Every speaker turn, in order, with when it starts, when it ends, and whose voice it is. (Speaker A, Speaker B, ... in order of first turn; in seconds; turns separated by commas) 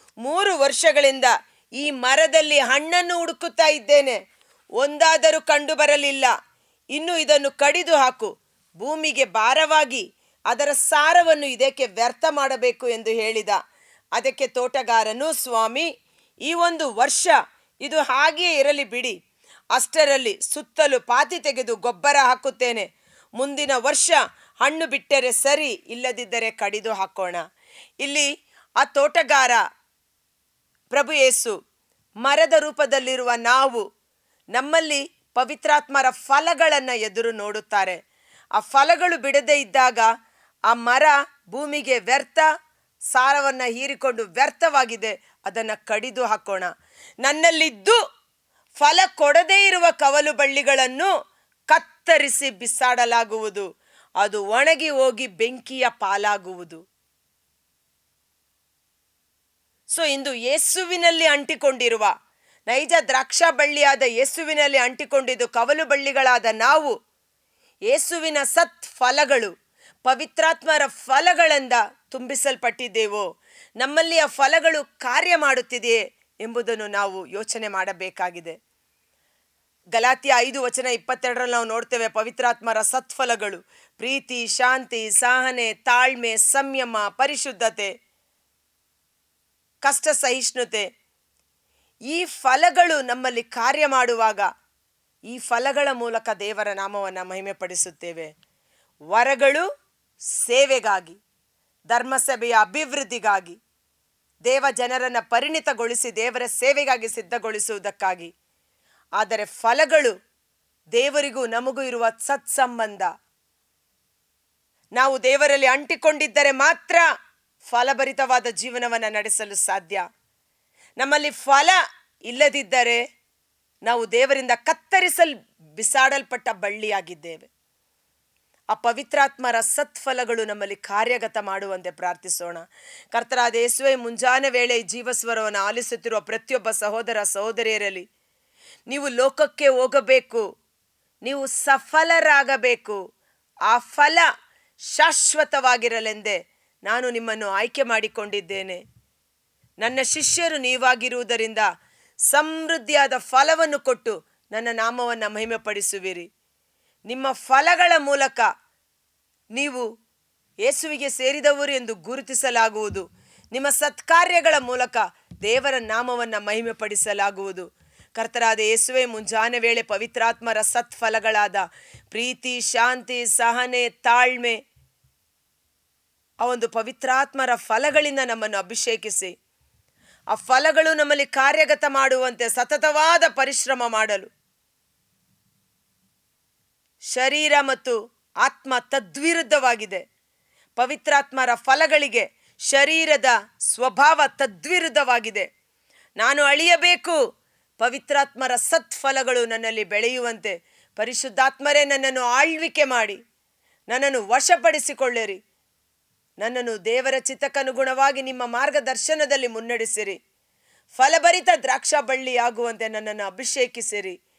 Speaker A: 0.2-4.2, Speaker A: 4.8-6.3, Speaker A: 6.9-13.6, Speaker A: 14.2-15.9, Speaker A: 16.4-19.1, Speaker A: 19.7-22.9, Speaker A: 23.4-27.4, Speaker A: 28.0-28.3, Speaker A: 28.8-29.6, Speaker A: 30.9-31.6, Speaker A: 32.2-33.8, Speaker A: 34.5-38.0, Speaker A: 38.5-40.1, Speaker A: 40.7-42.5, Speaker A: 43.1-46.7, Speaker A: 47.2-48.0, Speaker A: 48.8-51.1, Speaker A: 51.7-53.6, Speaker A: 54.2-56.8, Speaker A: 59.9-62.1, Speaker A: 62.7-66.9, Speaker A: 67.9-69.5, Speaker A: 70.0-73.2, Speaker A: 73.8-78.5, Speaker A: 79.9-87.9, Speaker A: 89.8-90.8, Speaker A: 92.1-94.5, Speaker A: 95.3-98.3, Speaker A: 99.1-99.6, Speaker A: 100.4-101.2, Speaker A: 101.9-103.6, Speaker A: 104.5-108.3, Speaker A: 109.2-110.1, Speaker A: 110.9-113.1, Speaker A: 115.0-117.0, Speaker A: 117.7-120.0, Speaker A: 121.0-123.0, Speaker A: 123.8-127.5, Speaker A: 128.7-138.0, Speaker A: 138.9-140.4, Speaker A: 141.2-143.0, Speaker A: 143.7-144.2, Speaker A: 144.9-148.8, Speaker A: 149.8-151.7, Speaker A: 152.3-156.3, Speaker A: 157.1-158.5, Speaker A: 159.5-159.8, Speaker A: 160.6-174.6, Speaker A: 176.4-179.3, Speaker A: 180.3-184.3, Speaker A: 187.1-190.0, Speaker A: 190.8-195.5, Speaker A: 196.2-197.2, Speaker A: 197.8-203.2, Speaker A: 203.9-205.4, Speaker A: 206.4-210.2, Speaker A: 211.0-214.1